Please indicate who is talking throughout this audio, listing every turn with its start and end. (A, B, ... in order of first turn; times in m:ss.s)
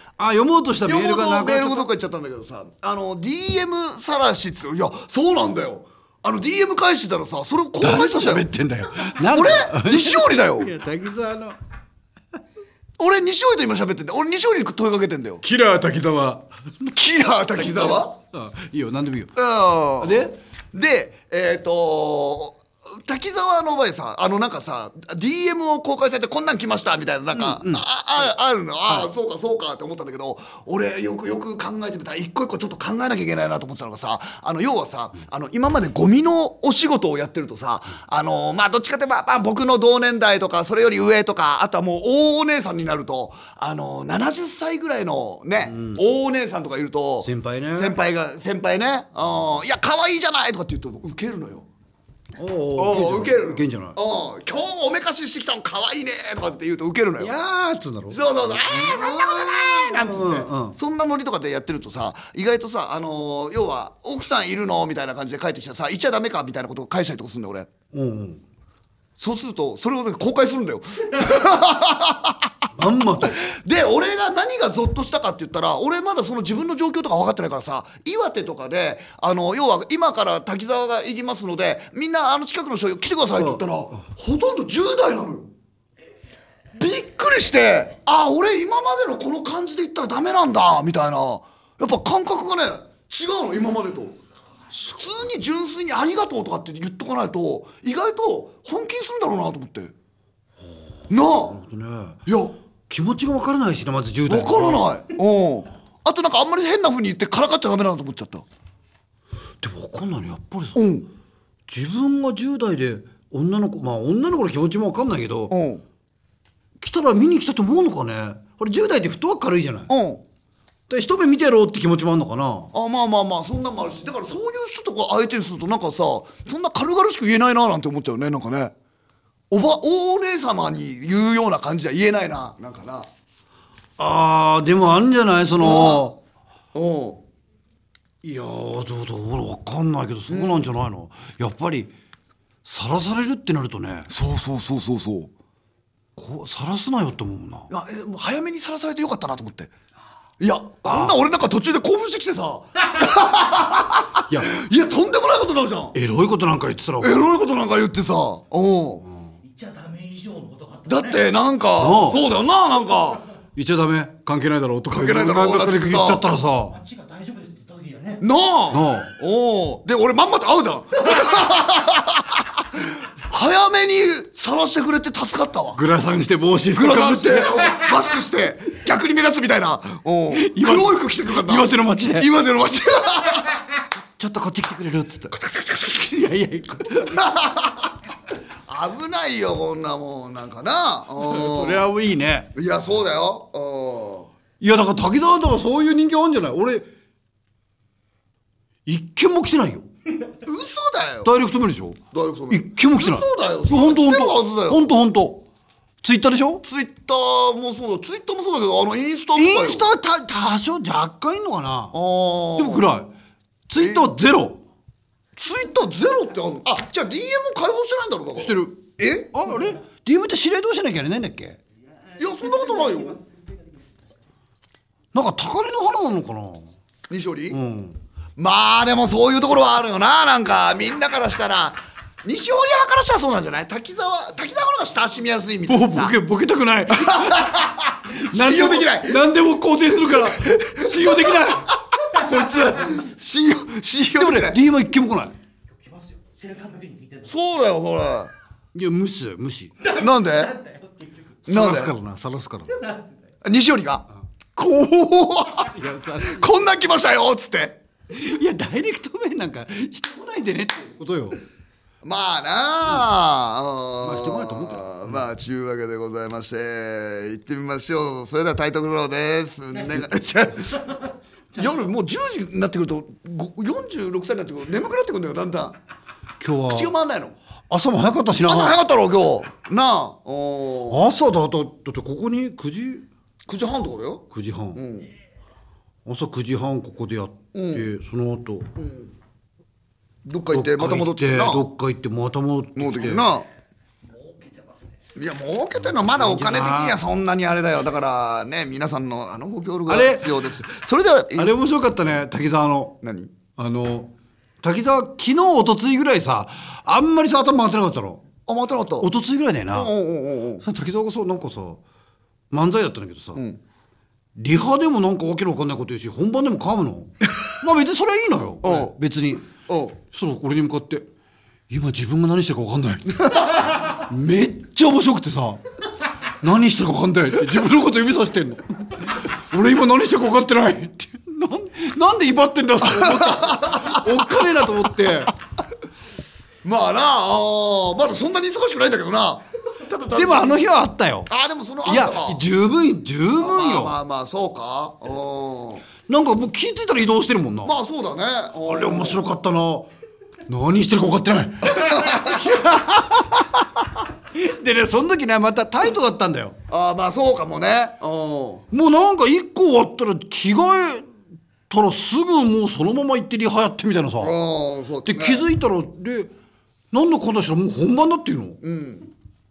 0:00.2-0:01.9 A
0:00.9-0:08.5 B
0:07.8-0:11.6 A
0:09.2-0:10.7 B
0:13.0-0:15.4 B
0:15.4-0:17.0 A
0:16.9-0:18.2 B
0:17.5-0:19.3 A
0:19.4-0:51.7 B
0:20.0-0:20.4 A
0:27.3-0:28.2 A
0:45.7-0:46.0 A
0:47.2-0:48.0 A
0:52.4-0:54.0 A
0:52.8-0:57.3 B
0:57.2-1:00.8 A
0:58.1-1:07.7 B
1:07.9-1:08.4 A
1:09.2-1:12.5 B
1:12.8-1:13.4 A
1:13.2-1:25.5 B
1:23.4-1:23.6 A
1:26.8-1:34.1 B
1:34.8-1:39.9 B
1:41.1-1:41.6 B
1:41.4-1:42.2 A
1:42.3-1:42.6 B
1:42.9-1:44.9 A
1:44.3-1:48.4 B
1:49.6-1:50.9 A
1:50.8-1:51.1 B
1:51.7-1:55.5 A
1:55.5-1:55.8 B
1:56.8-1:59.9 A
1:59.9-2:00.2 B
2:00.9-2:02.7 A
2:02.7-2:08.7 B
2:09.5-2:13.1 B
2:14.0-2:16.2 A
2:15.6-2:16.1 B
2:16.7-2:17.2 B
2:18.2-2:21.9 A
2:20.3-2:20.7 B
2:22.6-2:24.1 A
2:24.1-2:25.3 B
2:26.2-2:27.7 A
2:27.7-2:29.7 B
2:30.4-2:36.0 B
2:30.8-2:31.2 A
2:35.9-2:37.3 A
2:37.0-2:39.1 B
2:39.4-2:41.3 C
2:40.9-2:43.2 B
2:41.8-2:42.2 A
2:43.6-2:46.8 A
2:44.9-2:46.2 B
2:46.7-2:48.2 C
2:48.2-2:55.8 B
2:48.7-2:49.1 A
2:55.8-2:57.7 A
2:56.7-3:03.6 B
3:00.3-3:02.3 A
3:04.0-3:07.3 A
3:07.1-3:07.9 B
3:08.7-3:11.9 B
3:11.2-3:12.5 A
3:12.6-3:14.3 B
3:14.6-3:16.9 A
3:18.9-3:19.9 A
3:20.4-3:21.3 B
3:21.2-3:22.0 A
3:22.1-3:24.9 B
3:22.5-3:25.4 A
3:26.0-3:26.6 A
3:26.6-3:29.9 B
3:29.3-3:32.0 A
3:31.9-3:32.9 B
3:32.6-3:33.1 A
3:33.7-3:34.6 A
3:33.8-3:34.1 B
3:35.4-3:39.3 B
3:38.4-3:41.6 A
3:42.1-3:44.1 C
3:42.2-3:43.2 B
3:45.1-3:46.7 A
3:47.1-3:47.6 B
3:47.5-3:48.0 A
3:48.4-3:56.2 B
3:55.7-4:03.0 A
3:56.9-3:59.2 B
4:00.0-4:04.6 B
4:04.2-4:05.4 A
4:05.7-4:07.4 C
4:07.3-4:08.3 B
4:08.7-4:09.8 A
4:09.8-4:11.4 C
4:09.9-4:10.5 B
4:11.5-4:11.9 B
4:11.5-4:12.8 A
4:12.7-4:13.1 C
4:13.4-4:17.8 B
4:15.6-4:16.5 A
4:18.1-4:21.4 A
4:22.0-4:30.8 B
4:24.0-4:25.2 A
4:31.6-4:35.8 B
4:36.4-4:36.9 A
4:36.7-4:37.4 B
4:37.7-4:38.8 A
4:38.4-4:41.0 B
4:40.9-4:43.1 A
4:43.5-4:45.1 B
4:44.3-4:44.8 A
4:46.0-4:48.7 A
4:47.5-4:47.9 B
4:48.8-4:49.1 B
4:50.2-4:51.7 B
4:50.5-4:53.3 A
4:52.8-4:53.5 B
4:54.1-4:54.8 C
4:55.2-5:01.5 B
4:55.9-4:57.0 A
4:59.9-5:00.4 A
5:01.4-5:03.0 A
5:03.0-5:03.3 B
5:03.6-5:08.2 A
5:08.5-5:09.1 B
5:09.0-5:09.9 A
5:09.7-5:10.6 B
5:10.6-5:11.8 A
5:12.5-5:13.4 A
5:13.4-5:13.6 B
5:14.4-5:19.5 A
5:18.6-5:19.0 B
5:19.7-5:20.0 B
5:20.1-5:21.1 A
5:21.7-5:25.6 A
5:26.4-5:35.3 A
5:32.8-5:34.1 B
5:36.6-5:40.6 B
5:40.1-5:41.3 A
5:41.3-5:42.4 B
5:41.8-5:44.0 A
5:43.4-5:45.9 B
5:46.1-5:47.8 A
5:47.6-5:49.2 B
5:48.7-5:49.9 A
5:50.5-5:56.6 A
5:51.7-5:52.6 B
5:56.7-5:58.6 B
5:58.7-6:01.1 A
6:01.7-6:04.3 A
6:04.2-6:05.4 B
6:05.0-6:06.3 A
6:06.9-6:08.6 A
6:08.6-6:09.1 B